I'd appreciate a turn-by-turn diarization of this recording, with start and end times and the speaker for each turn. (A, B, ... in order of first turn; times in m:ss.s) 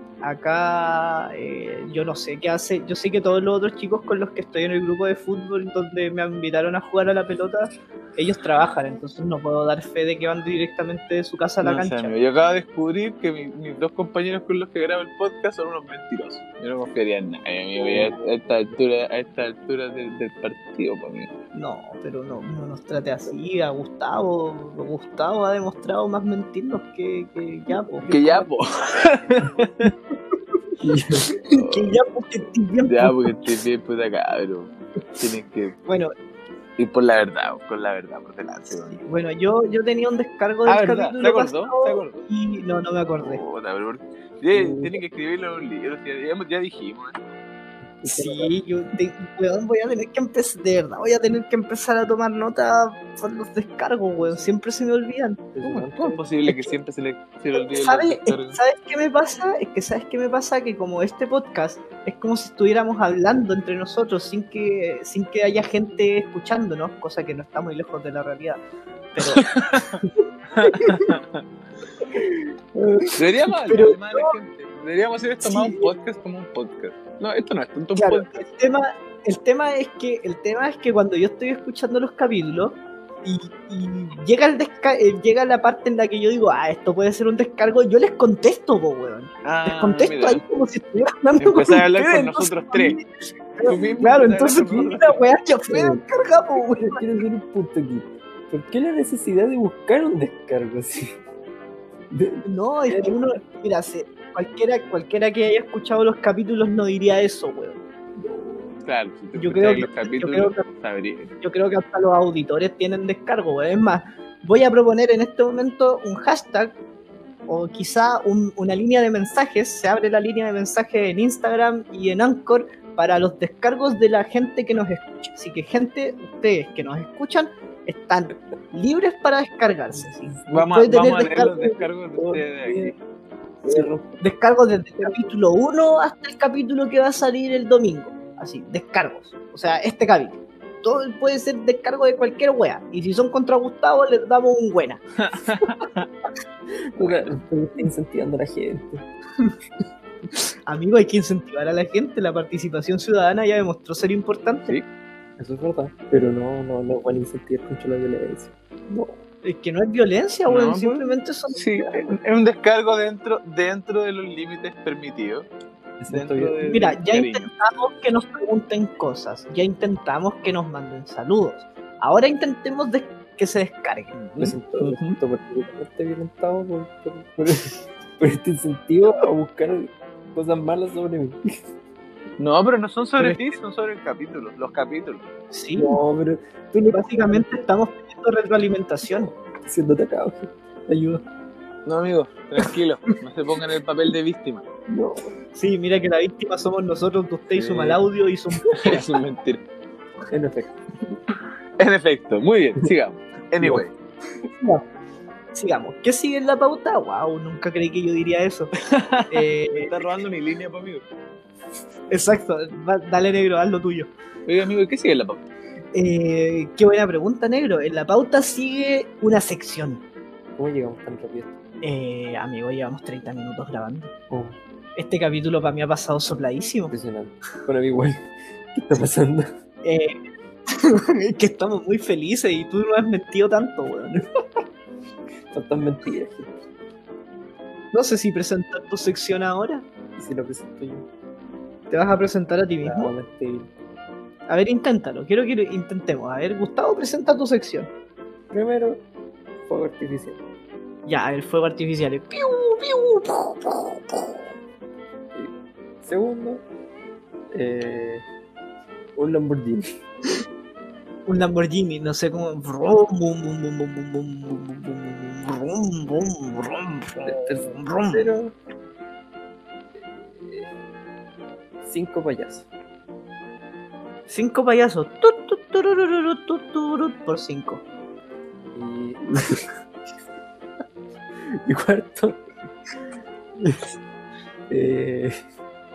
0:00.2-0:12.2 A
0:11.6-0:21.3 B
0:17.8-0:18.2 C
0:21.5-0:28.4 A
0:28.1-0:29.9 B
0:30.8-0:31.3 C
0:31.4-0:33.2 A
0:31.5-0:31.9 B
0:32.9-0:35.8 B
0:35.9-0:36.1 A
0:36.8-0:39.0 B
0:38.9-0:43.4 A
0:40.7-0:42.2 B
0:43.2-0:47.2 B
0:44.5-0:45.0 C
0:48.0-0:48.6 C
0:48.1-0:55.4 A
0:55.5-0:56.8 C
0:55.6-0:58.6 B
0:57.5-1:08.6 A
1:09.2-1:09.5 A
1:09.4-1:10.0 B
1:10.5-1:11.3 B
1:10.7-1:11.1 A
1:12.8-1:13.1 C
1:13.2-1:18.4 B
1:13.7-1:14.3 A
1:15.4-1:15.9 A
1:18.0-1:37.1 A
1:29.4-1:30.4 B
1:31.4-1:33.0 B
1:33.6-1:35.2 B
1:35.7-1:36.0 C
1:36.8-1:41.2 C
1:42.1-1:43.2 C
1:42.5-1:47.8 A
1:48.8-1:51.3 B
1:49.3-1:50.7 A
1:51.4-1:56.8 A
1:57.5-2:11.8 A
2:09.9-2:10.4 C
2:10.5-2:13.0 B
2:12.2-2:13.0 C
2:13.6-2:14.2 C
2:14.2-2:25.0 A
2:25.2-2:26.1 B
2:26.9-2:29.0 C
2:27.0-2:27.3 B
2:30.7-2:34.8 A
2:35.4-2:39.2 C
2:39.4-2:42.2 A
2:40.5-2:45.5 B
2:46.0-2:46.6 C
2:46.1-2:47.5 B
2:46.7-2:54.1 A
2:54.1-2:55.2 B
2:54.4-3:01.4 C
3:02.4-3:05.3 B
3:03.2-3:03.4 A
3:05.5-3:06.0 A
3:05.8-3:07.6 C
3:06.9-3:09.3 A
3:09.1-3:11.2 C
3:11.9-3:14.6 B
3:14.9-3:15.3 C
3:15.5-3:19.1 A
3:17.6-3:18.0 C
3:18.8-3:19.6 B
3:20.3-3:20.8 C
3:21.8-3:23.9 B
3:23.6-3:23.8 C
3:25.5-3:28.8 A
3:28.9-3:31.0 B
3:29.3-3:29.9 A
3:32.1-3:34.1 A
3:34.5-3:35.4 B
3:36.0-3:40.0 A
3:40.6-3:41.6 C
3:41.8-3:44.1 A
3:44.3-3:44.6 C
3:45.0-3:46.9 A
3:46.9-3:49.5 C
3:49.8-3:50.2 A
3:50.7-3:54.2 A
3:55.5-3:56.5 C
3:57.9-3:59.8 A
4:00.2-4:01.1 C
4:01.9-4:03.1 A
4:02.8-4:03.8 C
4:04.5-4:07.9 A
4:08.5-4:09.0 C
4:09.6-4:10.4 C
4:11.1-4:14.4 A
4:15.3-4:16.6 C
4:17.5-4:18.3 C
4:19.2-4:19.9 C
4:21.3-4:28.3 A
4:27.2-4:28.5 C
4:30.1-4:30.7 C
4:31.8-4:32.7 C
4:34.3-4:37.8 A
4:38.7-4:39.7 C
4:41.6-4:42.4 C
4:43.6-4:44.0 C
4:44.7-4:45.3 C